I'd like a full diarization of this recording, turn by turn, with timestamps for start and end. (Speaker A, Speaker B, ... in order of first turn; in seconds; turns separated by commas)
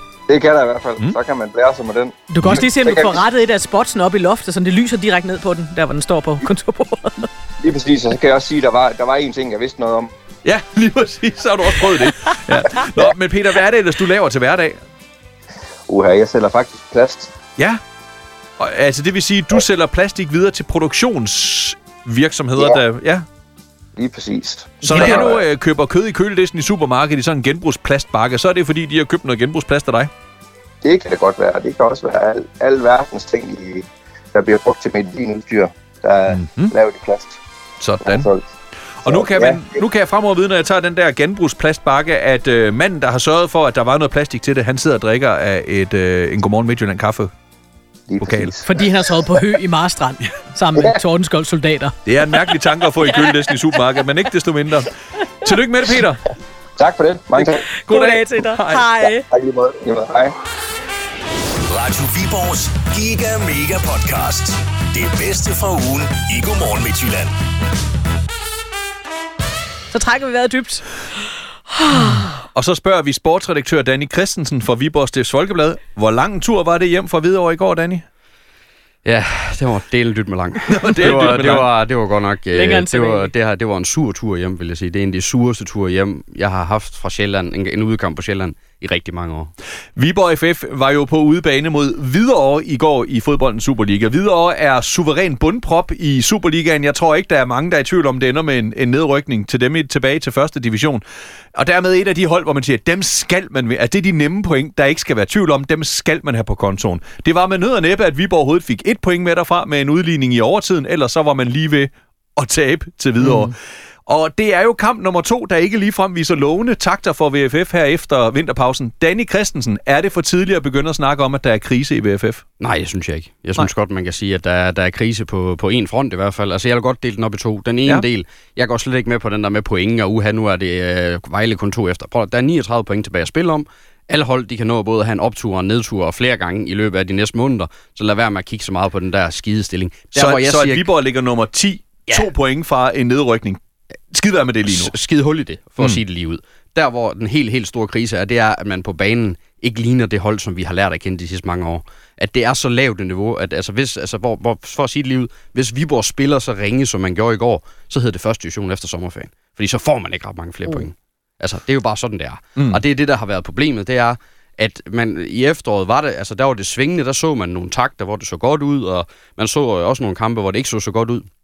Speaker A: 0.3-3.2, Speaker B: 2.3-7.3, Speaker A: 7.6-10.1, Speaker C: 10.4-14.8, Speaker A: 15.9-17.3, Speaker C: 18.6-23.2, Speaker A: 23.9-25.4, Speaker C: 24.8-30.1, Speaker A: 30.8-37.4, Speaker C: 36.3-36.7, Speaker C: 37.8-38.3, Speaker A: 38.0-38.4, Speaker C: 39.0-47.3, Speaker A: 39.0-39.8, Speaker A: 48.1-48.7, Speaker C: 48.2-48.5, Speaker B: 48.6-52.0, Speaker C: 52.0-54.9, Speaker B: 53.0-53.5, Speaker C: 55.4-56.2, Speaker A: 56.8-57.6, Speaker B: 57.8-59.2, Speaker C: 57.9-58.9, Speaker A: 59.3-60.3, Speaker D: 61.7-67.3, Speaker B: 69.9-70.8, Speaker B: 71.8-72.3, Speaker C: 72.4-78.0, Speaker E: 79.0-89.5, Speaker C: 80.7-81.7, Speaker B: 82.5-83.3, Speaker C: 90.0-101.0, Speaker C: 101.5-113.5, Speaker B: 113.2-113.5, Speaker C: 114.1-122.4, Speaker E: 122.6-140.9, Speaker C: 140.1-143.6, Speaker C: 144.1-144.9, Speaker E: 144.7-171.3